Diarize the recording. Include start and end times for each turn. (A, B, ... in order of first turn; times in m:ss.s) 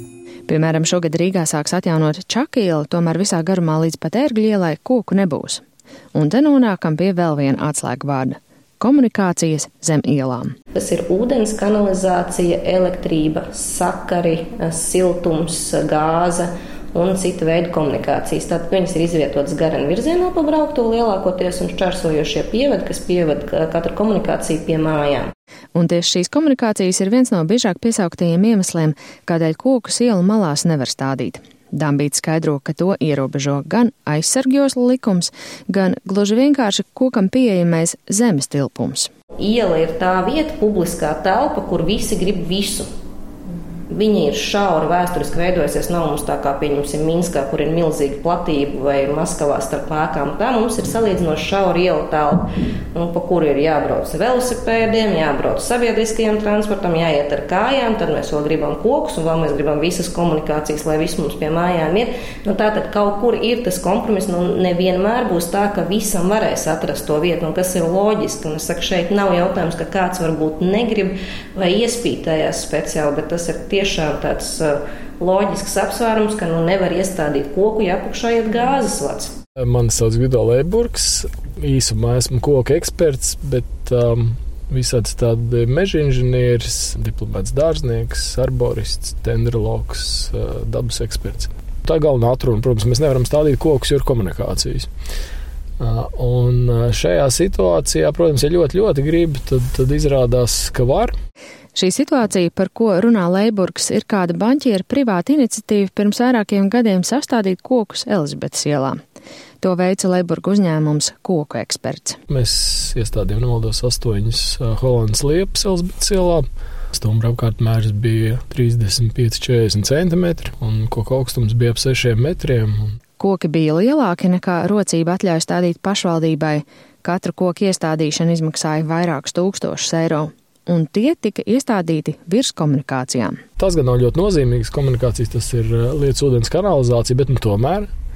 0:00.5-0:05.6 A
0:06.1-0:10.5 A
0:10.8-0:25.3 B
0:25.7-0:39.1 A
0:39.4-0:42.9 B
0:43.9-0:52.4 B
0:52.9-1:19.3 B
1:19.6-1:34.9 C
1:35.8-1:41.1 C
1:41.8-1:49.0 A
1:49.6-1:52.2 A
1:52.3-2:02.7 C
2:03.2-2:13.4 A
2:13.6-2:17.9 C